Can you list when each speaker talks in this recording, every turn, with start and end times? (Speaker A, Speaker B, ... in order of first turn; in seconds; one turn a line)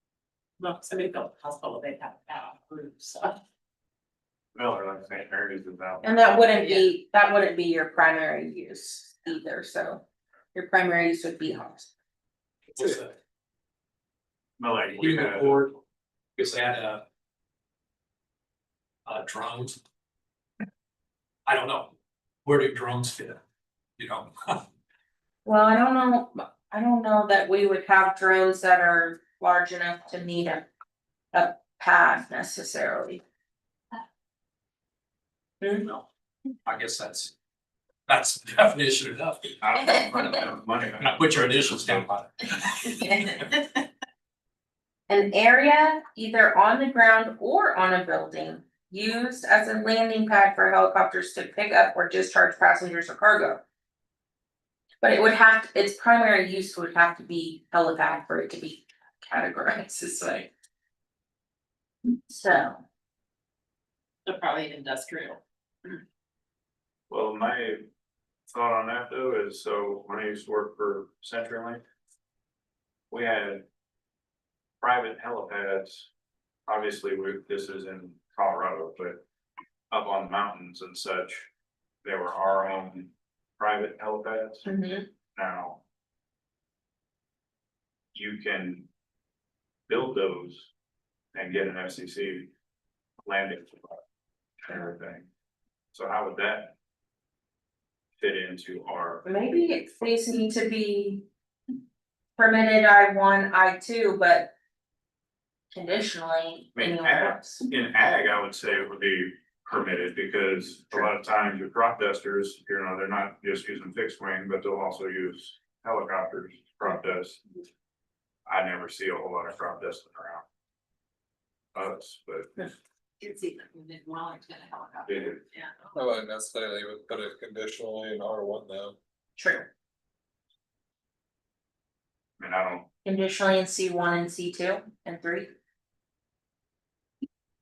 Speaker A: 0.6-3.4
Speaker B: 4.5-6.5
Speaker C: 6.0-10.0
Speaker A: 6.5-6.9
Speaker C: 10.5-11.9
Speaker D: 12.7-13.2
Speaker B: 14.6-15.7
Speaker D: 15.0-15.8
Speaker D: 16.4-17.1
Speaker D: 19.1-19.8
Speaker D: 21.5-21.9
Speaker D: 22.4-23.4
Speaker D: 24.0-24.6
Speaker C: 25.4-30.7
Speaker C: 31.3-33.2
Speaker C: 35.6-36.0
Speaker D: 36.7-37.3
Speaker D: 38.1-39.5
Speaker B: 39.6-42.0
Speaker D: 41.0-43.6
Speaker C: 45.1-53.6
Speaker C: 55.0-60.5
Speaker C: 62.3-62.8
Speaker A: 64.2-66.0
Speaker B: 67.1-67.8
Speaker B: 68.5-71.8
Speaker B: 73.1-73.7
Speaker B: 74.8-76.1
Speaker B: 76.7-79.2
Speaker B: 79.9-81.5
Speaker B: 82.0-84.7
Speaker C: 84.7-85.1
Speaker B: 85.3-85.8
Speaker B: 88.1-88.9
Speaker B: 89.9-90.7
Speaker B: 91.3-92.5
Speaker B: 93.2-94.0
Speaker B: 94.6-95.3
Speaker B: 95.9-96.8
Speaker B: 98.2-99.2
Speaker C: 99.2-101.2
Speaker C: 102.4-104.5
Speaker C: 105.7-107.7
Speaker B: 106.8-117.4
Speaker B: 118.5-120.5
Speaker B: 121.8-122.5
Speaker A: 123.2-126.0
Speaker B: 125.1-125.4
Speaker E: 126.0-129.0
Speaker C: 129.4-129.7
Speaker B: 132.4-132.9
Speaker C: 133.0-135.5